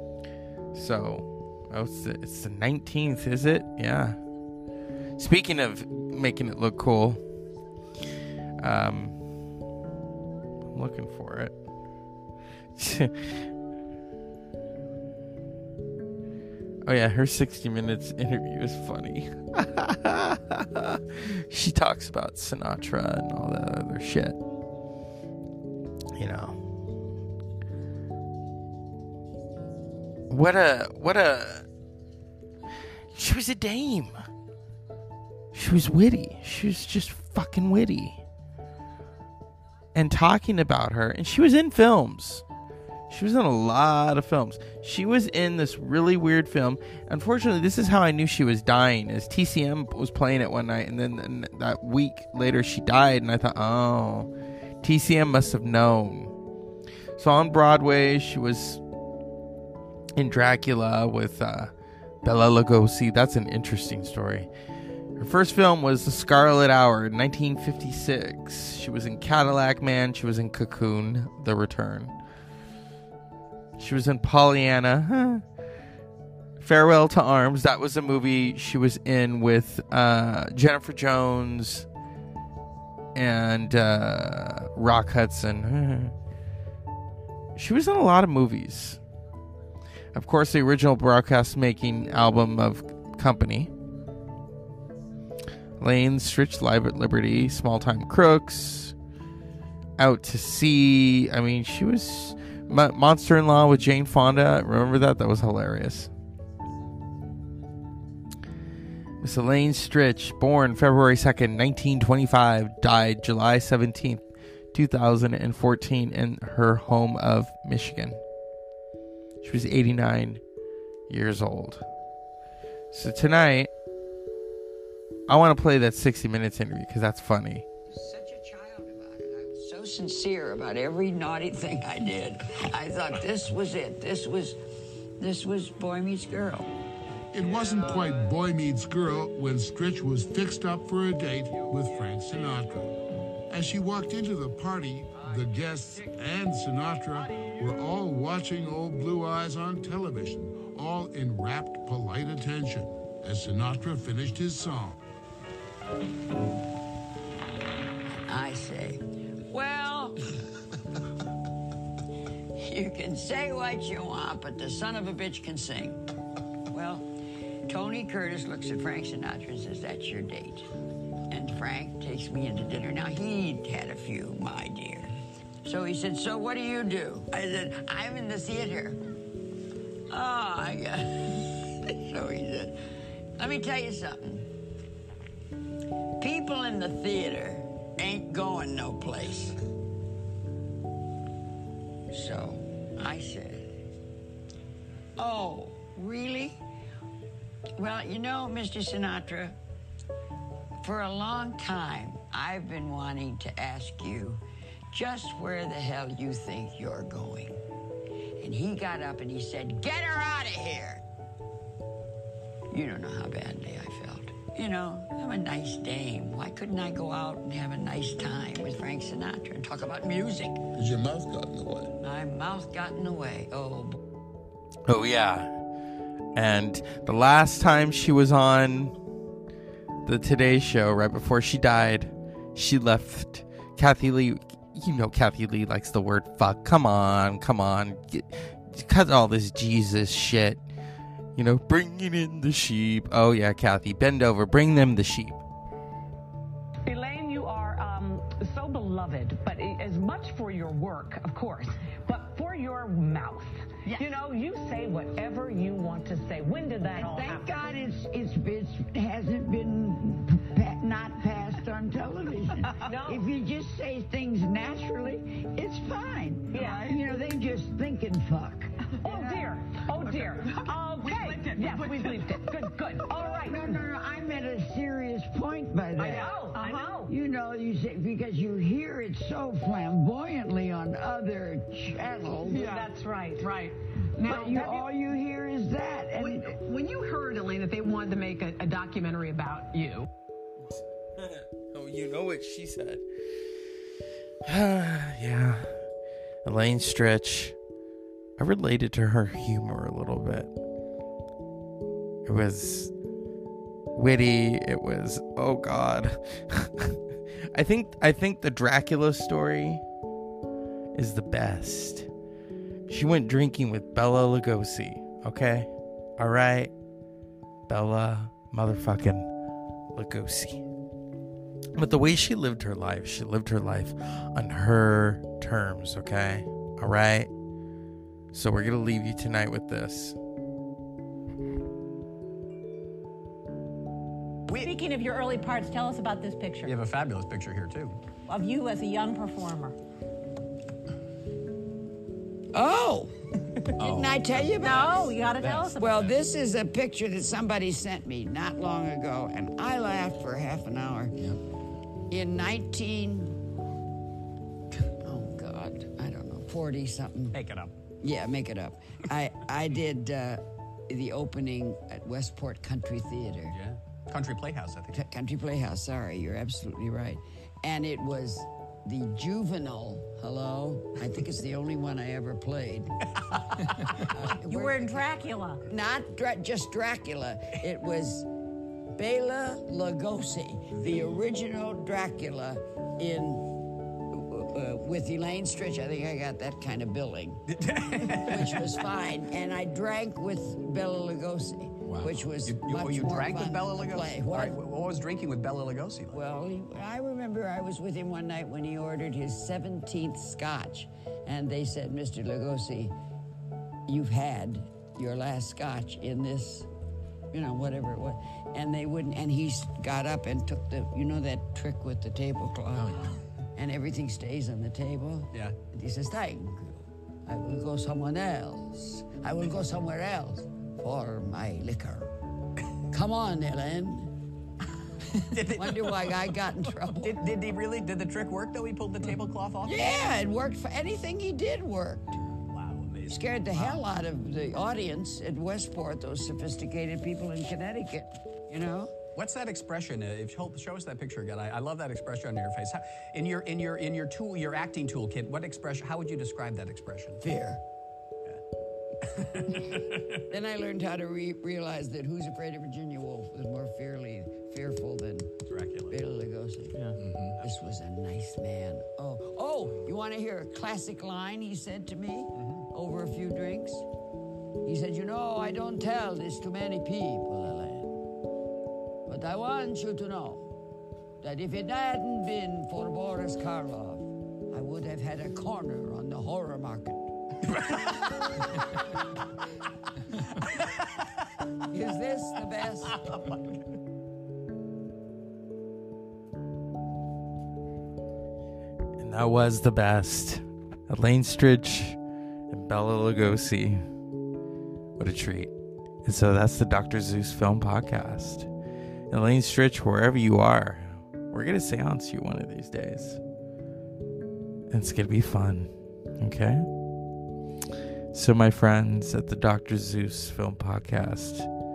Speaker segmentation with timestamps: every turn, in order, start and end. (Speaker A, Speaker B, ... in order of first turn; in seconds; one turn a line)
Speaker A: 0.7-4.2
Speaker A: 5.2-7.2
Speaker A: 8.6-9.2
Speaker A: 10.7-11.5
Speaker A: 12.8-13.5
Speaker A: 16.8-24.4
Speaker A: 26.1-26.6
Speaker A: 30.3-31.6
Speaker A: 33.1-34.2
Speaker A: 35.5-38.2
Speaker A: 39.9-42.4
Speaker A: 43.1-54.3
Speaker A: 54.8-56.3
Speaker A: 57.2-58.8
Speaker A: 60.1-61.7
Speaker A: 62.2-64.5
Speaker A: 65.2-72.1
Speaker A: 73.8-75.4
Speaker A: 76.6-81.9
Speaker A: 83.1-86.1
Speaker A: 87.5-89.0
Speaker A: 90.1-93.7
Speaker A: 95.8-98.9
Speaker A: 100.0-106.1
Speaker A: 109.2-118.2
Speaker A: 119.4-120.4
Speaker A: 121.1-121.8
Speaker A: 122.9-123.7
Speaker A: 125.3-127.6
Speaker B: 127.9-134.6
Speaker B: 135.2-136.7
Speaker C: 137.3-142.9
Speaker C: 143.5-155.0
Speaker B: 158.3-160.2
Speaker B: 162.6-166.0
Speaker B: 166.7-167.1
Speaker B: 167.7-170.7
Speaker B: 171.3-175.1
Speaker B: 175.6-179.0
Speaker B: 180.1-182.7
Speaker B: 183.4-184.5
Speaker B: 186.2-189.6
Speaker B: 192.1-193.7
Speaker B: 195.2-196.6
Speaker B: 197.8-199.6
Speaker B: 200.8-207.6
Speaker B: 208.4-211.0
Speaker B: 212.7-220.6
Speaker C: 220.8-221.9
Speaker B: 222.0-224.0
Speaker A: 224.9-225.5
Speaker A: 226.3-228.9
Speaker A: 230.1-240.6
Speaker A: 241.3-245.4
Speaker D: 246.8-257.5
Speaker B: 256.9-269.5
Speaker D: 262.8-263.2
Speaker D: 266.5-266.9
Speaker D: 269.0-273.8
Speaker E: 271.2-272.3
Speaker B: 273.1-276.4
Speaker D: 276.0-277.1
Speaker E: 276.5-276.9
Speaker B: 277.1-282.9
Speaker D: 282.5-283.7
Speaker E: 283.4-283.7
Speaker B: 284.2-286.6
Speaker D: 284.2-284.9
Speaker E: 286.2-290.1
Speaker A: 290.6-293.0
Speaker A: 294.4-295.8
Speaker A: 296.4-297.6
Speaker A: 298.4-300.5
Speaker A: 302.2-302.9
Speaker A: 303.9-307.0
Speaker A: 307.5-309.8
Speaker A: 310.9-312.1
Speaker A: 312.9-316.7
Speaker A: 317.7-319.3
Speaker A: 319.9-320.6
Speaker A: 321.8-327.3
Speaker A: 328.3-330.1
Speaker F: 334.6-336.7
Speaker G: 336.6-338.0
Speaker F: 338.3-339.8
Speaker B: 342.5-343.1
Speaker G: 343.8-344.5
Speaker B: 343.8-345.2
Speaker F: 344.6-346.1
Speaker G: 345.4-345.7
Speaker B: 345.8-351.3
Speaker B: 352.1-353.4
Speaker B: 355.0-357.4
Speaker G: 357.3-357.7
Speaker B: 358.0-363.6
Speaker G: 363.5-365.1
Speaker B: 364.9-373.1
Speaker G: 373.3-374.0
Speaker B: 373.9-375.1
Speaker F: 374.4-375.6
Speaker B: 375.6-378.3
Speaker B: 378.9-383.6
Speaker B: 384.1-387.4
Speaker G: 387.5-388.8
Speaker B: 388.1-394.6
Speaker G: 391.9-396.3
Speaker B: 396.1-402.9
Speaker B: 403.9-406.7
Speaker B: 407.3-422.1
Speaker G: 412.8-413.1
Speaker B: 422.9-424.1
Speaker G: 425.3-430.0
Speaker B: 425.4-427.2
Speaker B: 429.6-432.2
Speaker G: 432.5-433.9
Speaker B: 433.1-438.9
Speaker G: 439.1-447.3
Speaker B: 447.2-447.6
Speaker G: 449.0-450.2
Speaker B: 450.3-455.3
Speaker G: 455.5-456.0
Speaker B: 455.9-463.9
Speaker G: 457.0-457.4
Speaker G: 462.4-462.6
Speaker B: 464.6-467.9
Speaker B: 469.1-470.5
Speaker B: 471.2-477.1
Speaker G: 477.6-478.2
Speaker B: 481.7-483.0
Speaker G: 483.0-483.5
Speaker A: 489.0-492.0
Speaker A: 492.5-493.8
Speaker A: 495.0-495.5
Speaker A: 496.0-498.5
Speaker A: 499.1-503.2
Speaker A: 504.7-506.6
Speaker A: 508.1-511.5